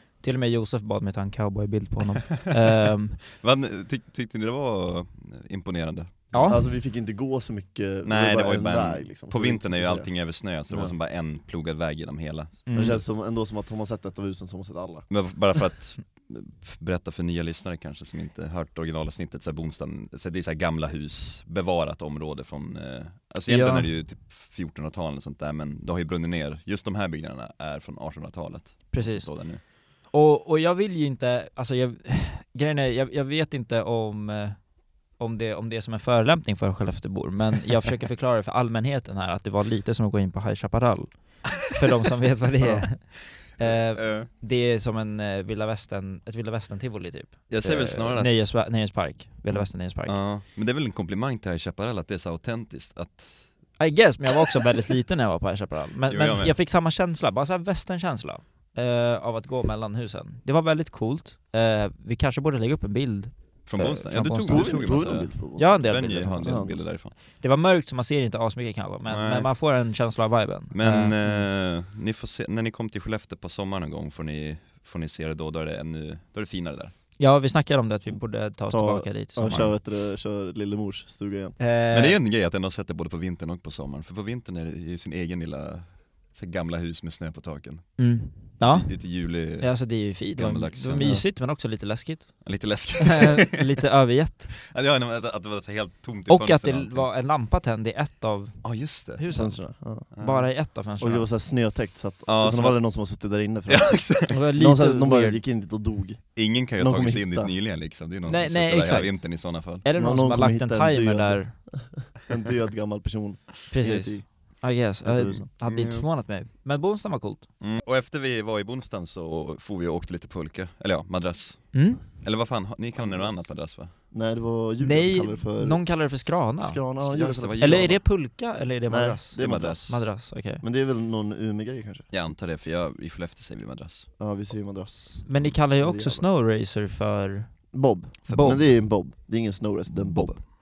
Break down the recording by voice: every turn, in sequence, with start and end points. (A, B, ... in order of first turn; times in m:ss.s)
0:00.2-0:03.2 A
0:03.3-0:06.6 B
0:06.3-0:06.7 A
0:06.4-0:11.0 C
0:08.0-0:13.0 B
0:12.7-0:13.0 A
0:12.7-0:15.1 C
0:15.1-0:29.7 B
0:23.5-0:23.9 A
0:28.9-0:50.2 A
0:42.6-0:42.9 C
0:42.9-0:44.3 B
0:47.5-0:48.4 B
0:49.5-0:53.8 B
0:53.8-1:11.2 A
0:56.1-0:56.6 B
1:03.7-1:07.2 B
1:04.4-1:06.8 C
1:09.1-1:09.5 B
1:10.7-1:17.0 B
1:17.2-1:19.7 A
1:18.7-1:21.6 C
1:19.4-1:19.7 B
1:21.6-1:22.2 A
1:21.9-1:31.3 B
1:28.0-1:34.6 A
1:31.0-1:31.3 C
1:32.4-1:33.8 B
1:34.6-1:37.1 B
1:36.3-1:41.3 A
1:38.6-1:39.3 B
1:39.3-1:40.1 C
1:40.1-1:40.5 B
1:41.0-1:47.5 C
1:42.3-1:43.1 B
1:43.7-1:44.4 B
1:44.3-1:45.4 A
1:46.4-1:49.8 B
1:48.2-1:51.6 A
1:50.0-1:55.5 C
1:53.7-1:57.5 A
1:55.6-1:56.1 B
1:57.6-2:04.0 B
2:01.7-2:02.1 A
2:03.0-2:08.2 C
2:04.8-2:07.0 A
2:07.0-2:08.0 B
2:07.6-2:10.6 A
2:08.9-2:09.9 C
2:09.4-2:10.1 B
2:10.6-2:12.1 C
2:12.1-2:14.1 B
2:14.2-2:16.3 C
2:15.2-2:17.7 A
2:17.7-2:20.4 C
2:18.3-2:18.7 A
2:18.3-2:18.7 B
2:20.0-2:20.5 B